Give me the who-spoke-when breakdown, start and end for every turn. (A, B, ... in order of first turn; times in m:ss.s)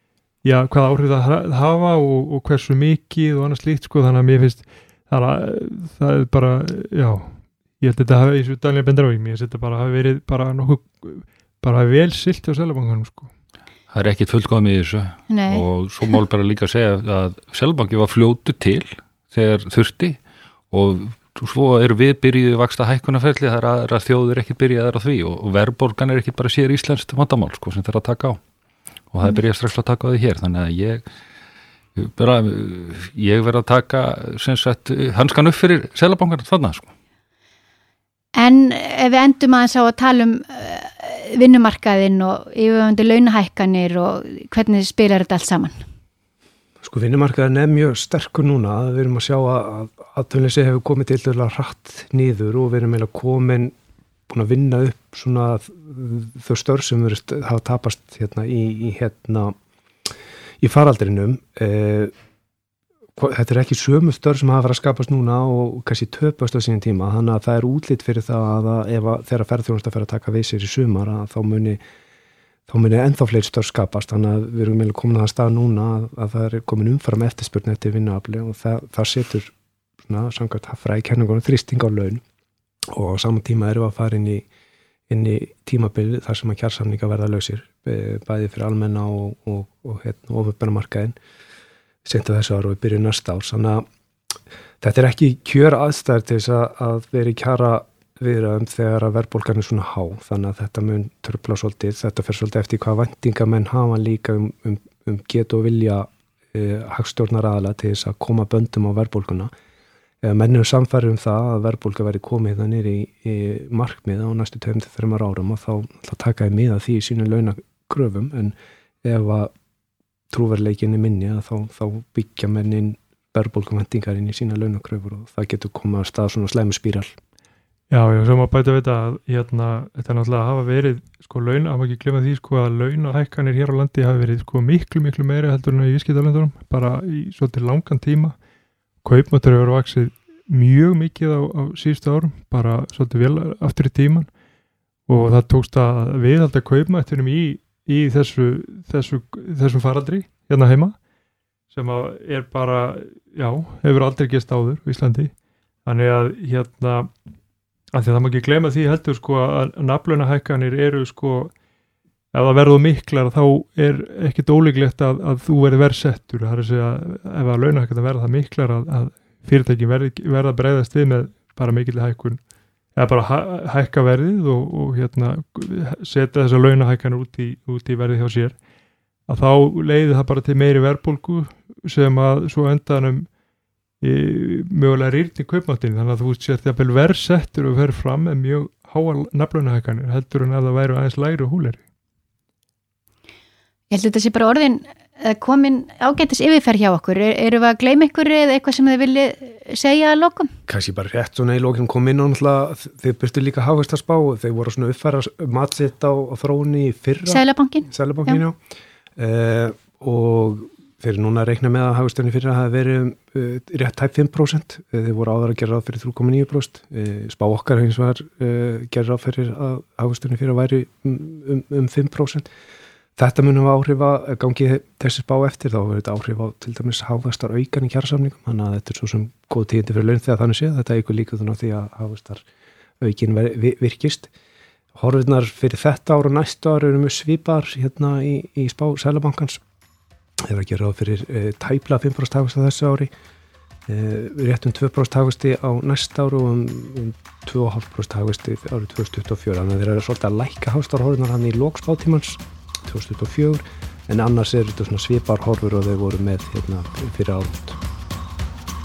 0:00.4-0:13.3 A
0:13.9-0:20.2 B
0:15.3-0:15.6 C
0:20.7-0:28.4 B
0:29.1-0:31.1 B
0:32.0-0:36.9 B
0:38.3-0:45.8 C
0:46.8-0:53.7 D
0:54.3-0:59.6 D
1:00.6-1:02.1 D
1:03.2-1:11.8 D
1:12.7-1:19.5 D
1:20.0-1:22.2 D
1:22.9-1:24.4 D
1:25.1-1:31.2 D
1:32.0-1:49.5 D
1:50.2-1:59.5 D
2:00.3-2:07.1 D
2:07.9-2:18.3 A
2:19.0-2:24.3 A
2:25.1-2:31.0 A
2:31.7-2:35.3 A
2:35.8-2:37.1 A
2:37.9-2:41.5 A
2:42.3-2:52.4 A
2:52.9-2:58.6 A
2:59.3-3:03.3 A
3:04.0-3:11.8 A
3:13.9-3:20.5 C
3:20.7-3:28.6 D
3:27.2-3:28.4 C
3:29.2-3:42.5 D
3:43.2-3:52.4 D
3:53.0-3:54.3 D
3:54.9-3:59.6 D
4:00.4-4:03.1 D
4:03.9-4:17.8 D